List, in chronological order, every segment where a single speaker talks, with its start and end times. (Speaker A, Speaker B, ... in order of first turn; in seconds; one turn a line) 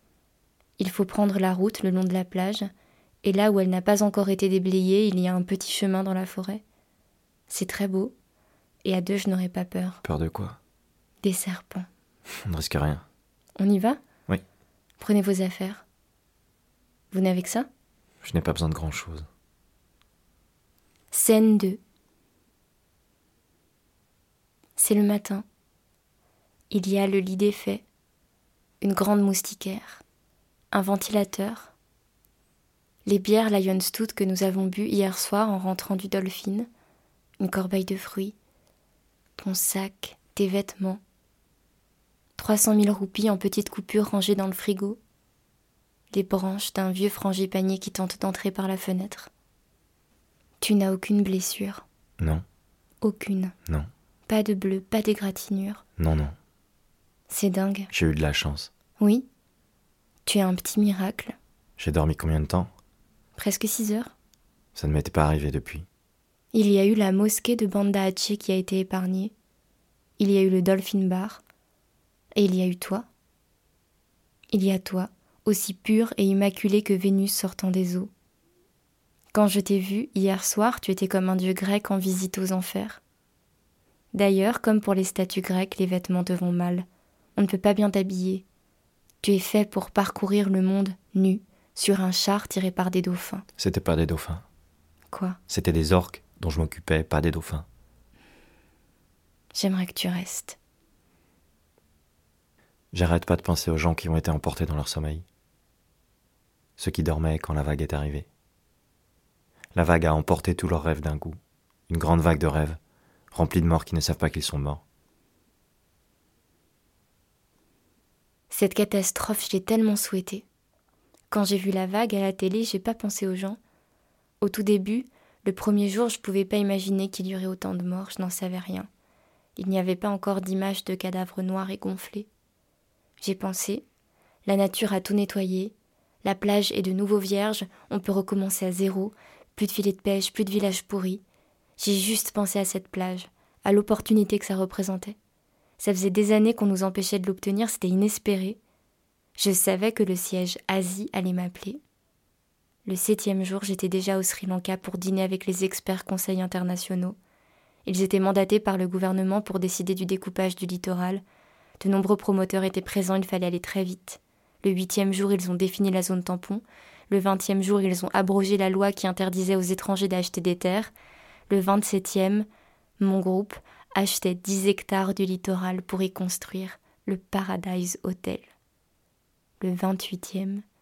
Speaker A: 0.8-2.7
Speaker A: 3.2-6.6
Speaker A: 7.5-8.1
Speaker A: 8.8-10.0
Speaker B: 10.0-10.6
Speaker A: 11.2-11.9
Speaker B: 12.5-13.0
Speaker A: 13.6-14.0
Speaker A: 15.0-15.8
Speaker A: 17.1-17.7
Speaker B: 18.2-19.3
Speaker A: 21.1-21.8
Speaker A: 24.8-25.4
Speaker A: 26.7-27.8
Speaker A: 28.8-30.0
Speaker A: 30.7-31.7
Speaker A: 33.0-36.7
Speaker A: 37.4-38.4
Speaker A: 39.4-41.0
Speaker A: 42.4-45.0
Speaker A: 46.1-49.3
Speaker A: 50.6-51.8
Speaker A: 53.0-53.5
Speaker A: 54.3-55.8
Speaker B: 56.0-56.3
Speaker A: 57.3-57.9
Speaker B: 57.9-58.7
Speaker A: 59.0-59.3
Speaker A: 60.2-61.4
Speaker B: 61.8-62.7
Speaker A: 63.4-64.1
Speaker B: 64.8-65.8
Speaker A: 66.5-69.3
Speaker A: 70.2-71.4
Speaker A: 72.3-73.0
Speaker A: 74.5-78.1
Speaker A: 79.3-83.0
Speaker A: 84.1-88.4
Speaker A: 89.2-93.4
Speaker B: 93.6-94.4
Speaker A: 95.1-95.4
Speaker B: 95.5-97.7
Speaker A: 99.5-100.6
Speaker B: 102.9-105.2
Speaker B: 106.8-108.3
Speaker B: 109.7-111.4
Speaker B: 111.9-112.8
Speaker B: 113.3-114.8
Speaker A: 118.5-120.5
Speaker A: 121.3-123.6
Speaker A: 124.4-128.9
Speaker A: 129.6-132.3
Speaker A: 133.2-133.8
Speaker A: 134.4-141.2
Speaker A: 141.8-145.2
Speaker A: 145.8-148.6
Speaker A: 149.4-151.8
Speaker A: 152.8-157.2
Speaker A: 157.8-161.2
Speaker A: 161.8-170.9
Speaker A: 171.5-172.4
Speaker A: 173.0-178.5
Speaker A: 179.6-180.6